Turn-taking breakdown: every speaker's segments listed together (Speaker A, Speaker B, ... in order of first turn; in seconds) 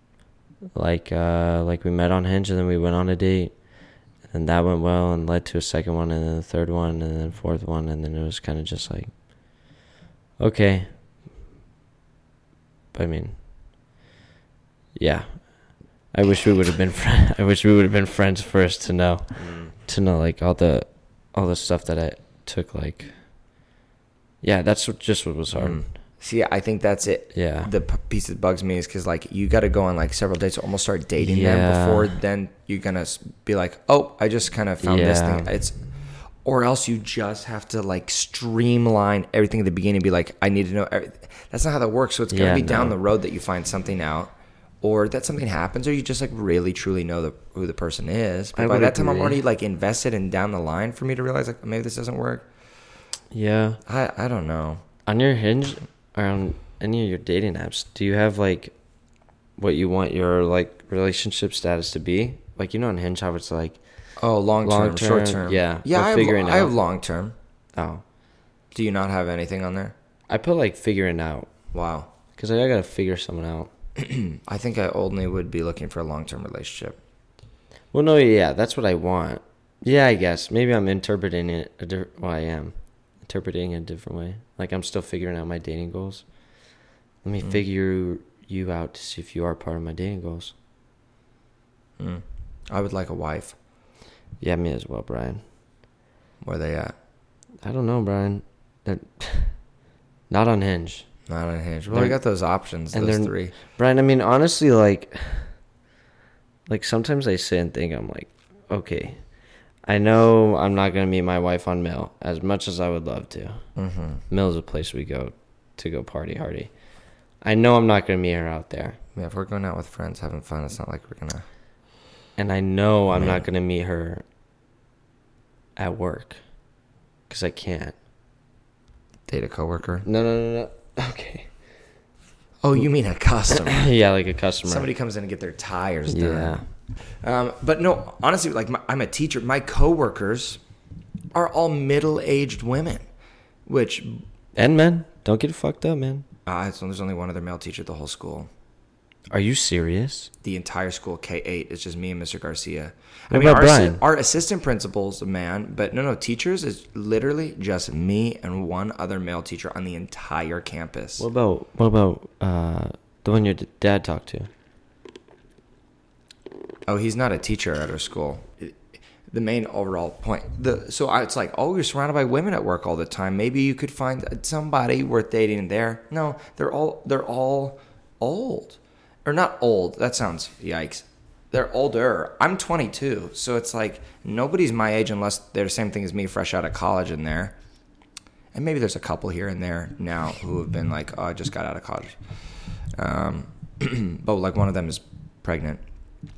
Speaker A: 0.7-3.5, 4.3-9.1, 10.4-10.9, 12.9-13.4, 15.0-15.4, 16.1-19.3, 19.9-23.1, 24.4-25.8, 27.3-27.7, 31.2-32.2, 34.8-35.5, 42.3-43.0, 48.5-49.4, 53.3-53.8, 55.1-58.7, 59.6-63.8, 64.6-66.7, 67.8-68.0, 70.3-71.5, 72.4-73.7, 77.9-86.2, 87.2-90.5, 94.4-95.4, 97.6-99.5, 100.3-101.1, 101.9-102.2, 102.9-105.5, 106.7-109.2, 109.9-113.6, 114.3-116.7, 117.4-119.0, 122.4-124.2, 125.8-126.4, 127.3-128.0, 130.1-131.5, 133.5-134.9, 136.1-136.6, 144.6-146.2, 149.3-150.3, 153.3-154.0, 161.2-164.5
Speaker B: 19.4-19.7, 25.5-35.8, 36.4-52.5, 53.9-54.8, 64.2-67.3, 68.7-70.0, 71.7-72.1, 74.0-77.0, 92.0-93.6, 96.4-96.9, 101.3-103.6, 113.8-114.2, 119.2-121.5, 123.1-123.5, 129.3-130.1, 132.6-133.9, 134.7-136.6, 137.2-140.6, 141.3-143.0, 143.7-144.2, 146.5-148.5, 150.4-161.3, 166.9-187.6, 188.5-192.2, 193.0-195.8